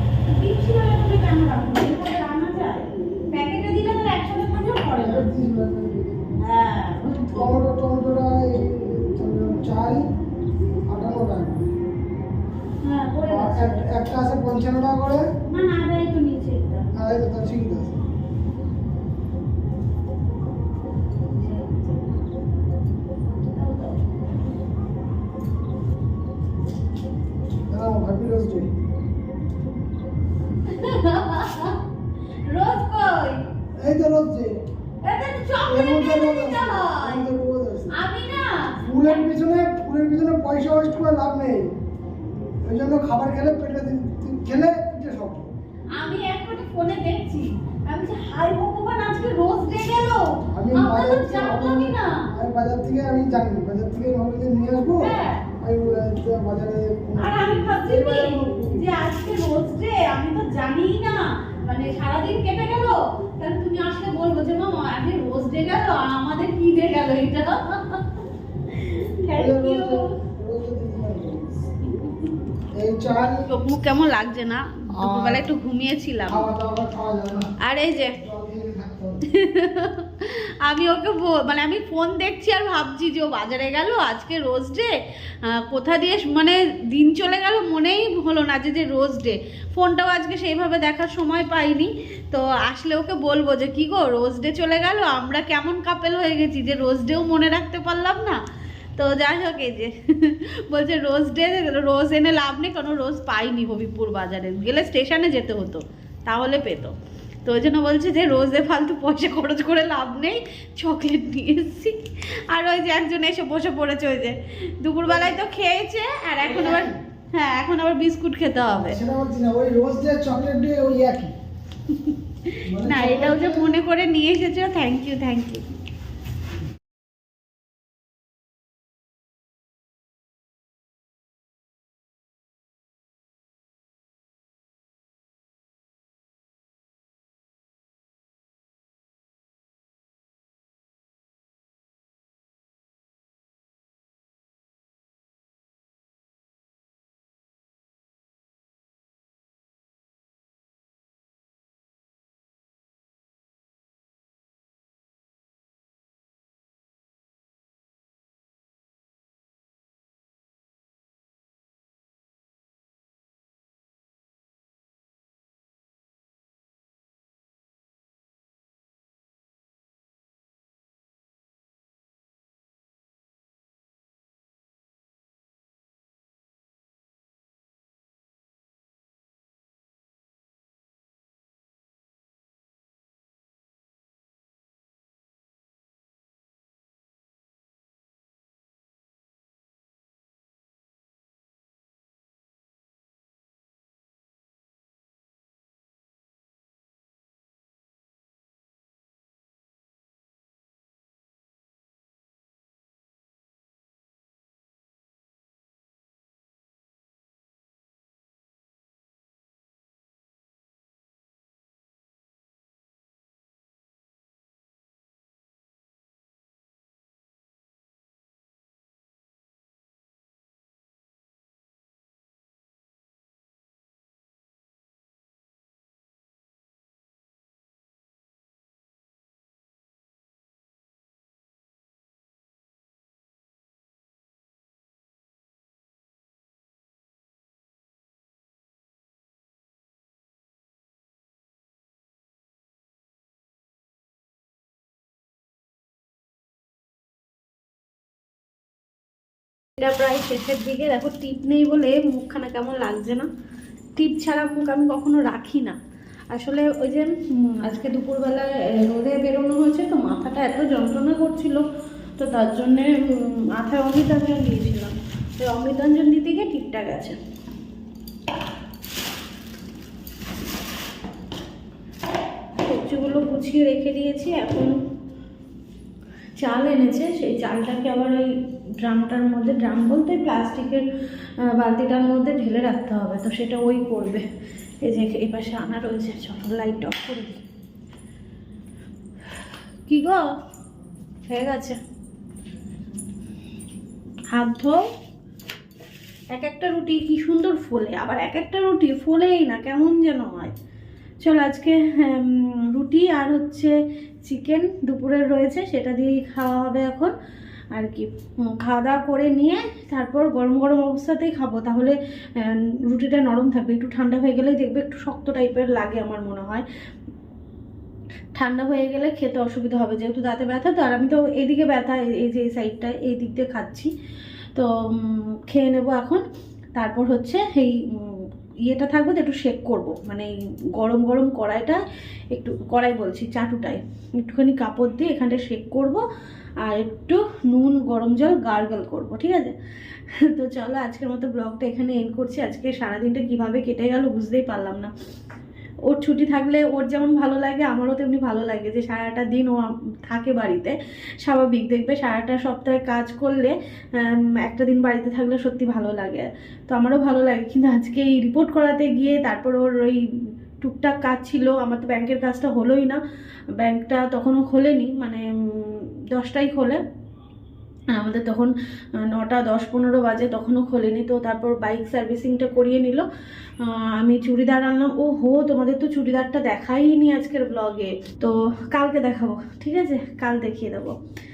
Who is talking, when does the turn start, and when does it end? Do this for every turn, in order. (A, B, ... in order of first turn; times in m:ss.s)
0:00.3-0:05.3 A
0:05.0-0:06.4 B
0:06.4-0:07.6 A
0:07.3-0:10.1 B
0:10.9-0:11.7 B
0:12.8-0:13.9 A
0:13.3-0:15.2 B
0:15.5-0:16.9 A
0:17.0-0:17.9 B
0:21.3-0:22.1 A
0:23.3-0:24.0 A
0:27.7-0:28.7 B
0:30.7-0:31.8 A
0:32.5-0:33.4 A
0:33.8-0:34.6 B
0:35.0-0:37.3 A
0:35.7-0:38.0 B
0:37.9-0:39.3 A
0:38.8-0:41.7 B
0:42.6-0:45.5 B
0:45.9-0:52.3 A
0:50.5-0:58.8 B
0:55.0-0:55.4 A
0:57.2-1:08.2 A
1:08.7-1:10.2 A
1:09.3-1:11.7 B
1:12.7-1:13.5 B
1:13.5-1:16.5 A
1:15.0-1:15.5 B
1:16.3-1:17.5 B
1:17.6-1:18.2 A
1:18.2-1:19.2 B
1:19.2-1:38.4 A
1:39.0-1:52.0 A
1:52.5-1:59.0 A
1:56.4-1:57.0 B
1:58.8-2:01.3 B
2:01.9-2:05.7 A
2:02.6-2:03.8 B
4:09.8-4:13.3 A
4:14.0-4:15.8 A
4:16.3-4:21.7 A
4:22.2-4:27.2 A
4:32.6-4:34.7 A
4:36.4-4:40.9 A
4:41.5-4:44.2 A
4:44.8-4:47.4 A
4:49.9-4:50.3 A
4:51.3-4:51.8 A
4:54.3-4:54.8 A
4:56.3-5:00.5 A
5:01.2-5:03.8 A
5:04.3-5:07.1 A
5:07.7-5:16.7 A
5:18.3-5:23.9 A
5:24.6-5:31.8 A
5:32.3-5:36.0 A
5:36.6-5:39.6 A
5:40.1-5:44.9 A
5:45.9-6:00.1 A
6:00.6-6:03.0 A
6:03.6-6:06.8 A
6:07.9-6:13.1 A
6:13.6-6:21.0 A